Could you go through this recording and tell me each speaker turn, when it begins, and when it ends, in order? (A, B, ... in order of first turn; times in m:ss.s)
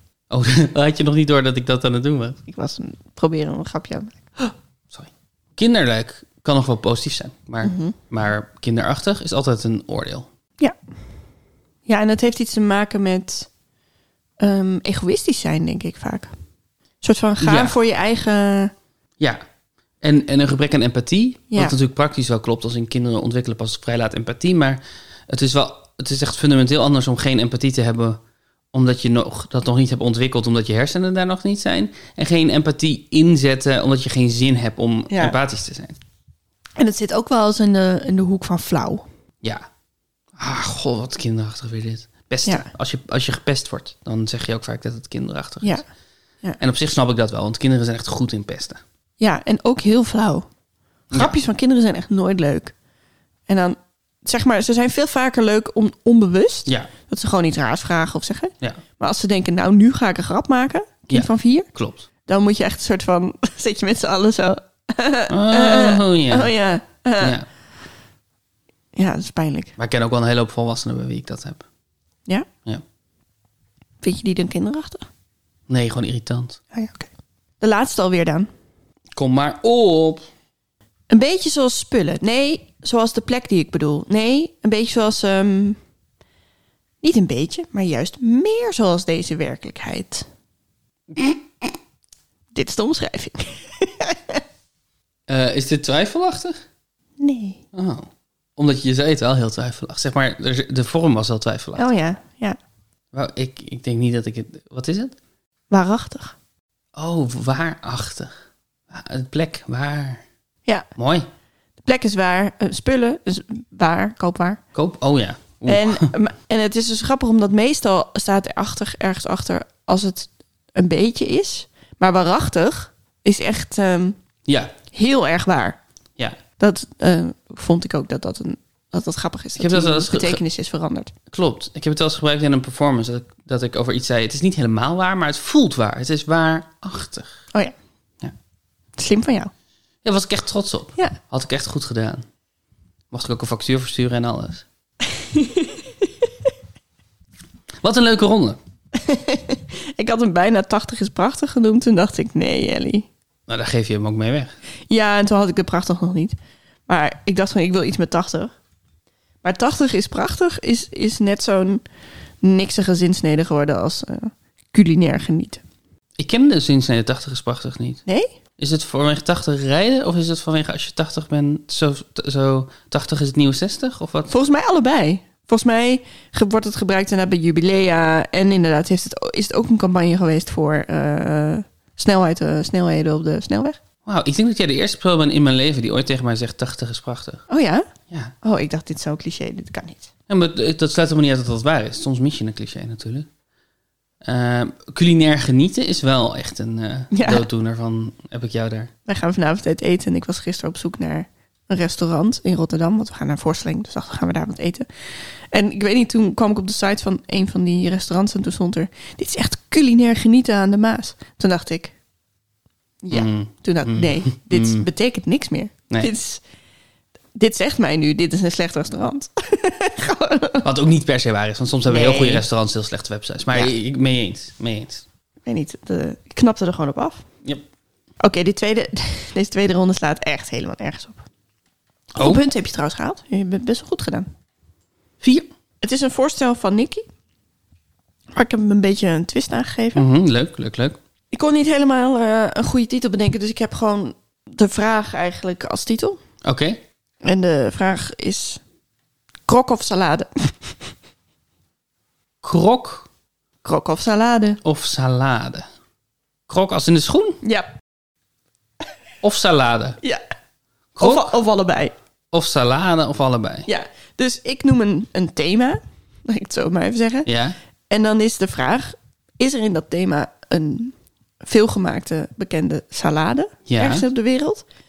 0:00.3-0:02.4 A
0:02.5-0:04.5 B
0:04.9-0:10.3 A
0:07.6-0:08.0 B
0:11.9-0:13.5 B
0:14.4-0:16.3 B
0:17.0-0:18.7 B
0:17.4-0:17.8 A
0:20.0-0:28.2 A
0:21.5-0:21.8 B
0:28.7-0:36.0 A
0:35.1-0:35.4 B
0:36.8-0:39.0 B
0:40.4-0:45.8 A
0:46.6-0:48.8 A
0:49.2-0:50.5 B
0:51.1-0:52.7 B
0:53.5-1:01.7 B
1:01.1-1:02.1 A
1:02.3-1:07.4 B
1:05.3-1:06.5 A
1:07.2-1:07.5 A
1:09.0-1:09.7 B
1:09.8-1:11.6 A
1:14.0-1:15.1 B
1:15.7-1:16.6 A
1:16.7-1:17.1 B
1:17.6-1:18.5 B
1:19.2-1:20.2 A
1:21.1-1:25.8 B
1:27.0-1:30.3 B
1:31.1-1:31.7 A
1:32.5-1:34.4 B
1:35.3-1:36.6 A
1:37.2-1:37.6 B
1:37.7-1:41.9 A
1:41.8-1:42.6 B
1:43.1-1:45.2 A
1:45.7-1:46.4 B
1:47.0-1:48.3 A
1:48.9-1:50.2 A
1:51.0-1:51.3 A
1:51.8-1:54.6 B
1:54.7-1:56.1 A
1:55.7-2:04.2 B
2:04.5-2:04.8 A
2:04.9-2:05.8 B
2:06.6-2:11.1 B
2:09.6-2:10.4 A
2:11.3-2:17.4 A
2:19.0-2:19.5 B
2:20.0-2:22.2 A
2:23.1-2:24.7 A
2:25.0-2:26.3 B
2:27.8-2:28.6 A
2:28.9-2:33.1 B
2:33.5-2:34.5 A
2:34.9-2:36.4 B
2:36.9-2:38.5 B
2:39.4-2:41.8 B
2:42.4-2:45.6 B
2:46.2-2:48.0 A
2:48.1-2:48.3 B
2:48.6-2:54.3 A
2:54.3-3:03.8 B
3:04.1-3:07.4 A
3:07.5-3:07.9 B
3:08.4-3:10.1 B
3:10.3-3:13.3 A
3:14.2-3:18.9 A
3:17.1-3:17.5 B
3:19.1-3:31.9 B
3:33.0-3:36.4 B
3:33.1-3:34.9 A
3:37.4-3:40.7 B
3:40.6-3:45.0 A
3:41.9-3:42.4 B
3:45.4-3:47.2 B
3:48.2-3:51.2 B
3:52.2-3:52.4 A
3:52.2-3:54.3 B
3:55.2-3:55.5 A
3:55.8-3:57.0 B
3:58.3-4:00.0 B
4:00.0-4:01.0 A
4:01.3-4:06.2 B
4:06.4-4:06.8 A
4:07.2-4:08.6 B
4:09.5-4:10.9 B
4:12.4-4:13.1 A
4:13.6-4:14.6 B
4:14.6-4:15.7 A
4:16.5-4:17.4 A
4:17.4-4:17.7 B
4:19.2-4:20.0 A
4:21.0-4:21.3 A
4:21.0-4:21.9 B
4:22.3-4:23.7 A
4:23.7-4:27.3 B
4:27.3-4:27.6 A
4:27.9-4:34.6 B
4:33.7-4:34.1 A